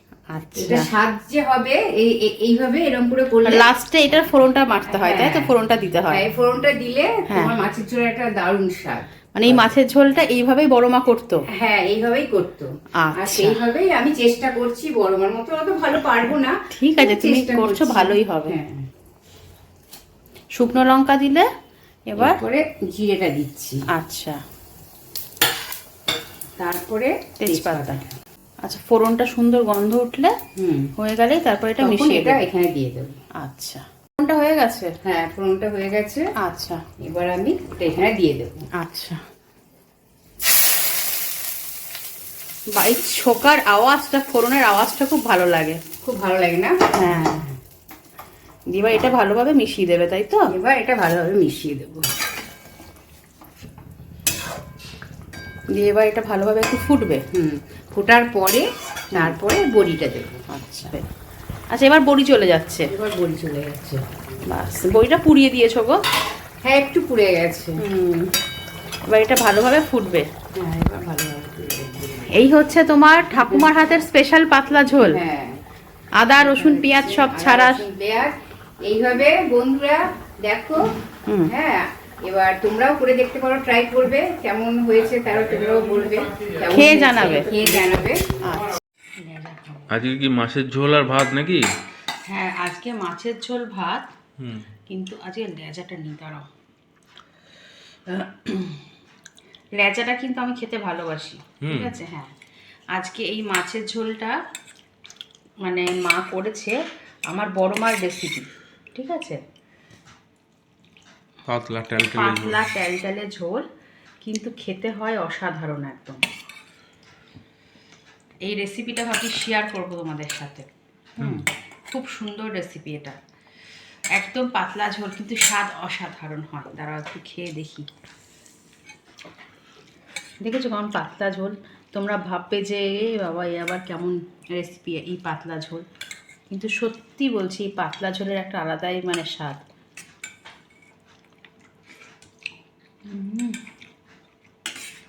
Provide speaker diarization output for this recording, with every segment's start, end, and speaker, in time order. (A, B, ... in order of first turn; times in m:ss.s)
0:00.3-0:00.9 A
0:00.6-0:03.7 B
0:03.4-0:06.3 A
0:04.9-0:05.5 B
0:06.1-0:09.7 B
0:07.3-0:07.5 A
0:09.4-0:11.5 A
0:11.5-0:18.9 B
0:13.0-0:13.6 A
0:16.7-0:18.6 A
0:20.6-0:21.5 A
0:22.1-0:22.4 A
0:22.2-0:23.8 B
0:23.9-0:24.4 A
0:26.6-0:28.2 B
0:27.4-0:28.0 A
0:28.6-0:30.3 A
0:30.6-0:30.9 B
0:31.0-0:32.4 A
0:31.8-0:33.2 B
0:33.4-0:35.0 A
0:35.0-0:36.3 B
0:36.4-0:36.8 A
0:37.0-0:38.6 B
0:38.8-0:39.2 A
0:42.8-0:45.8 A
0:46.0-0:47.5 B
0:46.9-0:47.4 A
0:48.7-0:50.5 A
0:50.5-0:52.1 B
0:55.7-0:57.2 A
0:57.3-1:00.4 B
1:00.5-1:01.0 A
1:01.7-1:02.9 A
1:02.9-1:04.0 B
1:04.5-1:06.0 A
1:06.6-1:07.8 B
1:07.8-1:08.3 A
1:09.1-1:10.3 A
1:10.6-1:12.3 B
1:12.3-1:15.2 A
1:15.1-1:15.6 B
1:16.2-1:17.8 A
1:16.4-1:18.3 B
1:18.9-1:20.8 B
1:21.3-1:21.5 A
1:21.5-1:28.3 B
1:26.7-1:27.5 A
1:28.4-1:29.8 A
1:29.9-1:31.7 C
1:32.3-1:34.1 A
1:34.4-1:34.6 C
1:34.9-1:36.5 A
1:38.1-1:38.8 A
1:39.8-1:42.3 A
1:41.6-1:41.9 C
1:42.9-1:44.4 A
1:45.6-1:46.8 A
1:47.3-1:49.4 A
1:51.4-1:52.6 C
1:52.0-1:53.6 A
1:54.2-1:56.2 A
1:58.4-2:00.7 A
2:01.2-2:01.4 C
2:01.2-2:03.2 A
2:04.2-2:07.9 A
2:10.4-2:15.8 A
2:16.5-2:19.6 A
2:23.1-2:23.6 A